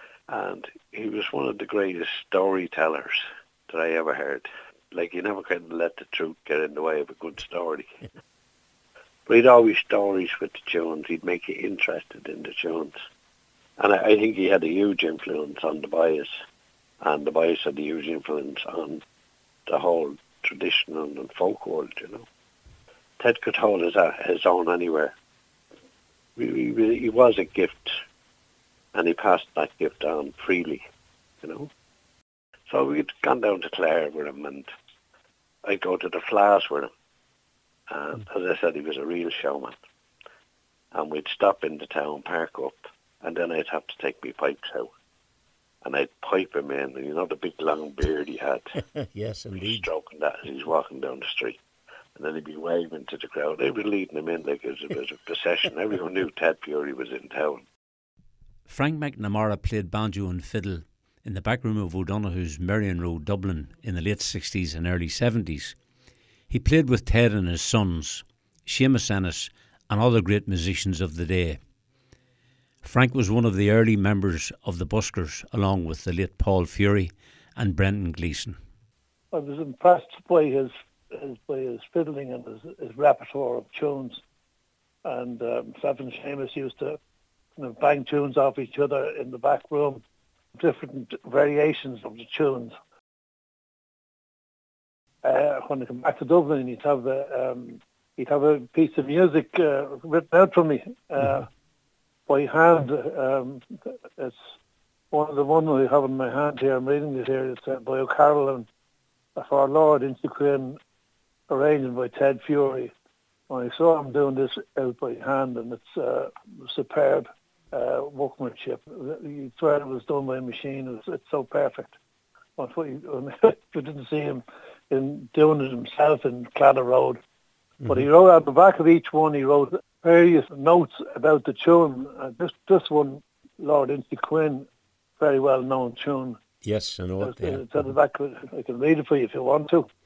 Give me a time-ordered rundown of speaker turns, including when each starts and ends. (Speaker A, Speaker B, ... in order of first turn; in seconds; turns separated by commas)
Speaker A: 0.3-7.9, Speaker A: 9.3-12.9, Speaker A: 13.8-16.3, Speaker A: 17.0-19.0, Speaker A: 19.7-22.2, Speaker A: 23.2-25.1, Speaker A: 26.4-27.9, Speaker A: 28.9-30.8, Speaker A: 31.4-31.7, Speaker A: 32.7-34.7, Speaker A: 35.6-36.9, Speaker A: 37.9-39.7, Speaker A: 40.9-44.9, Speaker A: 45.8-48.7, Speaker B: 48.9-49.9, Speaker A: 49.5-51.6, Speaker A: 52.1-57.6, Speaker B: 58.7-65.8, Speaker B: 66.5-71.6, Speaker B: 72.8-78.6, Speaker C: 79.3-84.2, Speaker C: 85.0-87.0, Speaker C: 87.6-90.0, Speaker C: 90.6-92.7, Speaker C: 95.2-101.5, Speaker C: 102.3-104.4, Speaker C: 105.1-108.7, Speaker C: 109.3-110.8, Speaker C: 111.5-112.9, Speaker C: 113.5-122.0, Speaker C: 122.6-127.2, Speaker C: 127.8-134.7, Speaker C: 135.2-136.4, Speaker B: 136.6-137.9, Speaker C: 137.2-139.9